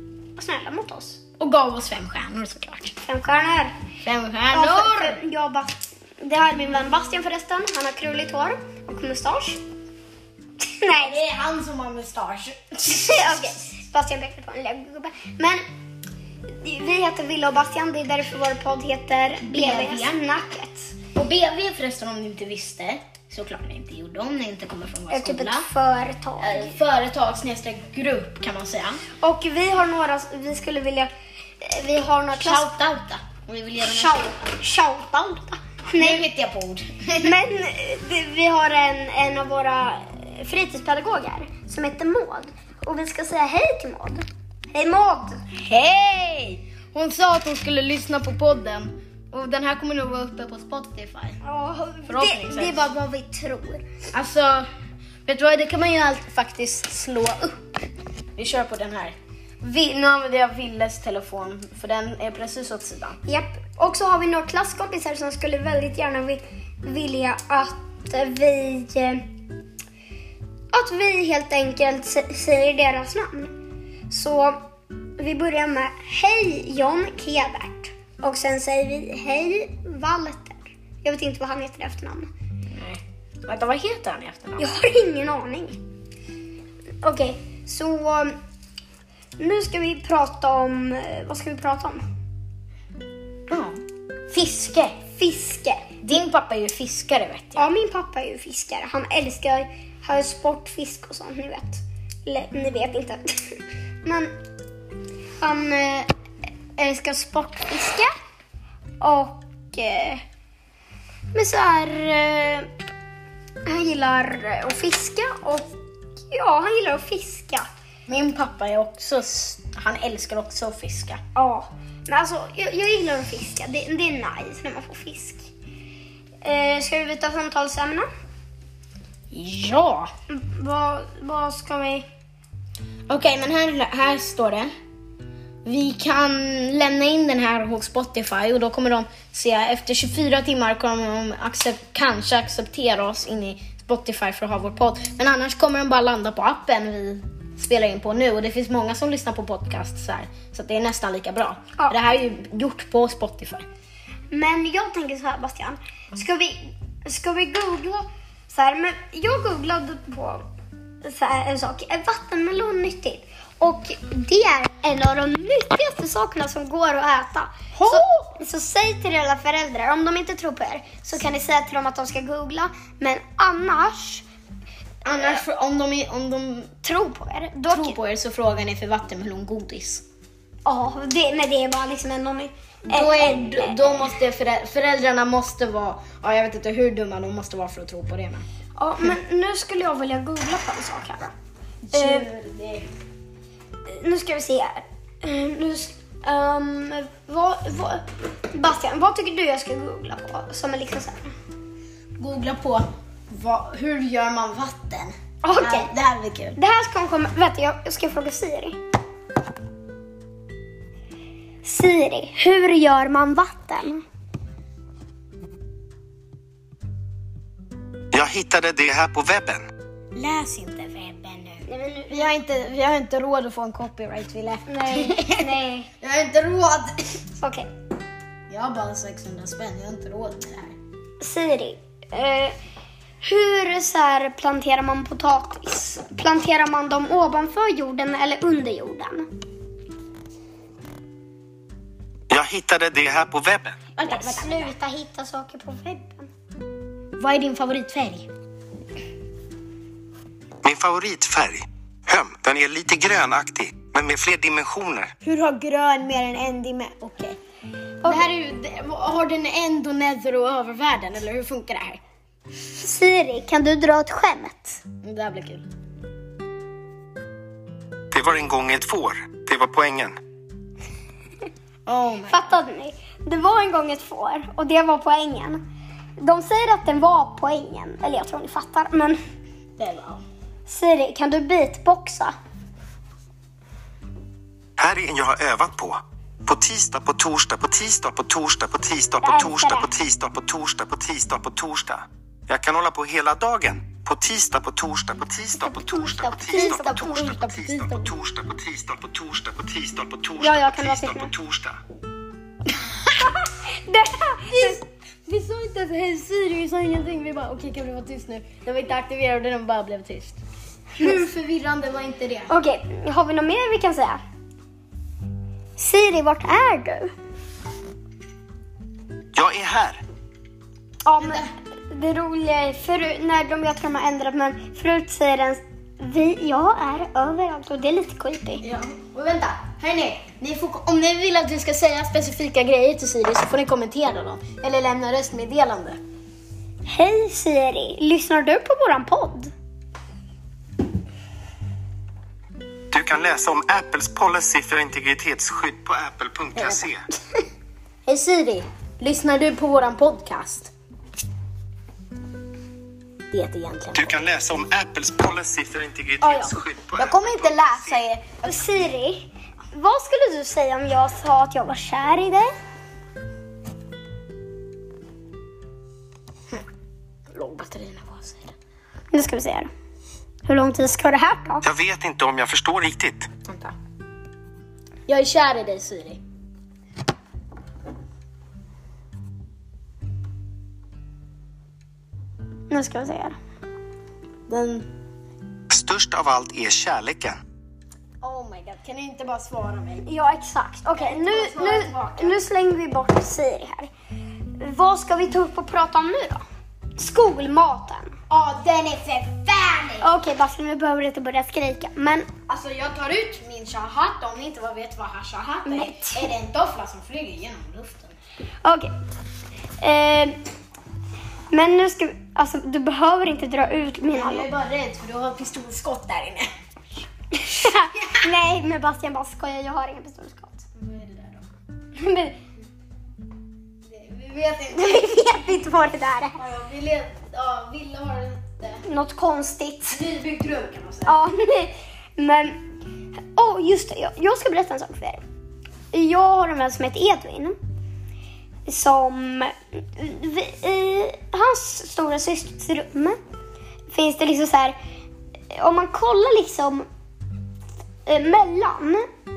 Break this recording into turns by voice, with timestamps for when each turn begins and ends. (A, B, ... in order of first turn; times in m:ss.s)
0:00.4-0:01.2 A
0:01.4-0:03.0 B
0:03.0-0:03.8 A
0:04.0-0:05.2 B
0:04.5-0:09.6 A
0:10.6-0:11.2 A
0:10.9-0:13.5 B
0:12.8-0:15.6 A
0:16.6-0:21.0 A
0:19.4-0:20.2 B
0:21.1-0:25.6 B
0:25.1-0:26.8 A
0:26.4-0:29.0 B
0:29.2-0:32.7 A
0:32.3-0:34.4 B
0:33.8-0:36.2 A
0:35.9-0:37.4 B
0:37.2-0:45.4 A
0:45.5-0:51.4 B
0:51.4-0:53.8 A
0:52.1-0:52.9 B
0:54.1-0:54.7 B
0:55.2-0:57.7 B
0:58.4-1:03.2 B
1:03.2-1:09.2 A
1:10.7-1:13.5 A
1:14.1-1:14.6 A
1:15.2-1:22.3 A
1:22.7-1:24.6 B
1:24.6-1:25.8 A
1:27.0-1:28.4 A
1:29.4-1:32.0 A
1:33.5-1:35.0 B
1:35.1-1:35.9 A
1:36.0-1:37.6 B
1:37.6-1:44.3 A
1:45.4-1:46.1 A
1:46.8-1:48.1 A
1:49.0-1:50.2 A
1:51.3-1:52.7 A
1:53.6-1:55.7 A
1:56.3-1:57.7 A
1:58.1-2:01.2 B
2:01.4-2:05.5 A
2:06.4-2:08.1 A
2:09.3-2:10.1 B
2:10.3-2:12.1 A
2:13.1-2:14.7 B
2:15.6-2:33.7 B
2:34.3-2:40.4 A
2:41.0-2:54.2 A
2:47.7-2:48.3 B
2:55.0-2:56.7 B
2:56.8-2:58.0 A
2:57.7-3:00.0 B
3:00.6-3:04.1 A
3:02.9-3:08.4 B
3:08.8-3:11.3 A
3:11.8-3:12.8 B
3:11.9-3:12.3 A
3:13.8-3:21.3 A
3:22.2-3:26.6 B
3:25.4-3:25.9 A
3:26.6-3:28.8 A
3:31.6-3:34.0 A
3:38.1-3:39.7 C
3:40.1-3:47.2 B
3:41.6-3:42.3 A
3:44.7-3:45.9 A
3:47.4-3:47.7 A
3:48.5-3:50.8 B
3:51.2-3:52.6 A
3:53.2-3:59.3 A
4:02.3-4:03.8 C
4:04.0-4:04.7 B
4:04.0-4:06.3 A
4:07.2-4:08.3 B
4:10.6-4:15.1 C
4:15.2-4:17.4 B
4:18.0-4:22.0 B
4:22.8-4:24.8 A
4:25.0-4:25.6 B
4:28.1-4:30.2 C
4:31.8-4:32.6 B
4:32.3-4:35.6 A
4:36.2-4:39.2 A
4:39.8-4:40.2 B
4:40.7-4:42.3 A
4:44.8-5:01.8 C
4:49.2-4:49.9 A
4:55.6-4:57.4 A
4:56.5-4:58.1 B
5:00.4-5:01.3 A
5:03.2-5:04.8 A
5:04.5-5:10.4 B
5:10.9-5:12.5 B
5:12.5-5:14.2 A
5:15.8-5:17.1 A
5:19.3-5:20.0 C
5:21.0-5:28.6 A
5:21.2-5:21.5 B
5:28.6-5:36.0 B
5:36.8-5:39.5 A
5:42.9-5:47.0 C
5:46.5-5:46.8 B
5:48.0-5:50.7 B
5:53.3-5:54.2 B
5:53.9-5:57.7 C
5:56.2-5:56.5 A
5:56.9-5:58.6 B
5:58.4-6:02.6 A
6:07.3-6:08.6 B
6:09.1-6:09.7 A
6:10.4-6:11.6 A
6:11.6-6:13.3 C
6:13.4-6:13.7 B
6:15.1-6:16.2 B
6:22.7-6:23.4 A
6:24.5-6:24.9 B
6:25.7-6:27.4 C
6:28.2-6:30.0 B
6:30.0-6:33.9 A
6:30.9-6:32.4 B
6:34.6-6:36.4 A
6:37.0-6:38.2 A
6:38.3-6:40.1 B
6:40.0-6:42.3 A
6:42.5-6:48.2 B
6:45.6-6:46.3 A
6:48.6-6:48.9 A
6:49.8-6:50.4 A
6:51.5-6:54.4 A
6:54.1-6:56.5 B
6:57.3-7:00.6 A
6:57.9-6:58.3 B
7:00.7-7:01.5 B
7:01.9-7:02.4 A
7:03.8-7:05.5 B
7:04.7-7:06.4 A
7:06.4-7:08.8 B
7:08.8-7:10.0 A
7:09.9-7:11.2 B
7:11.0-7:12.6 A
7:13.4-7:15.2 A
7:15.9-7:17.6 A
7:18.6-7:23.2 A
7:23.9-7:24.8 A
7:25.5-7:26.9 A
7:28.0-7:29.1 A